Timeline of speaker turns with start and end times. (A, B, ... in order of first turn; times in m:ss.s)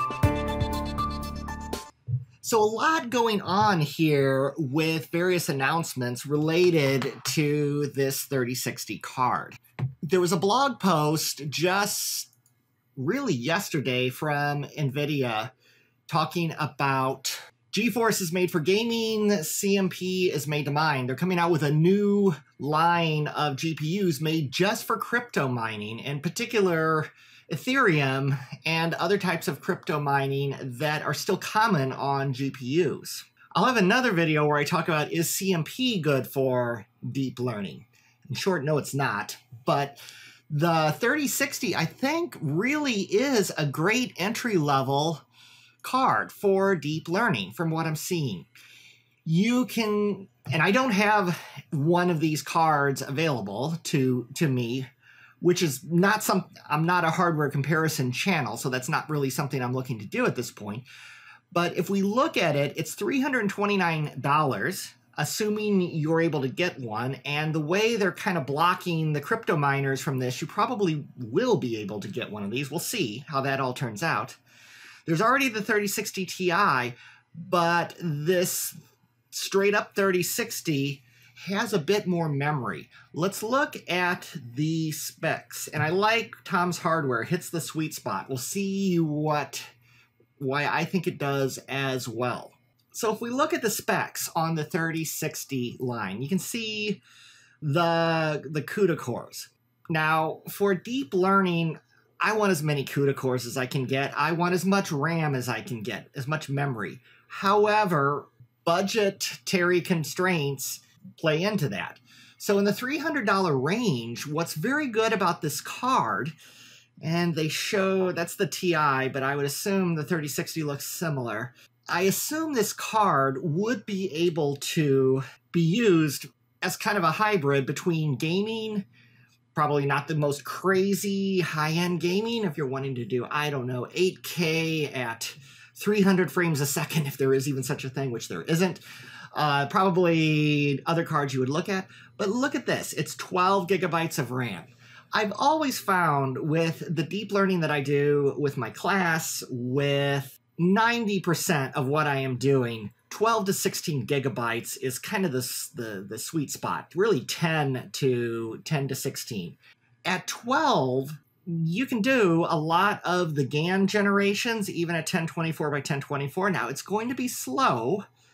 0:02.4-0:12.3 A
0:13.0-0:15.5 A
0:16.1-0:45.3 A
0:45.8-0:48.5 A
0:49.2-0:54.9 A
0:55.4-1:00.9 A
1:01.5-1:14.4 A
1:15.1-1:18.8 A
1:19.3-1:29.6 A
1:30.4-1:37.0 A
1:37.6-1:56.4 A
1:57.0-2:08.9 A
2:09.6-2:18.8 A
2:19.4-2:48.0 A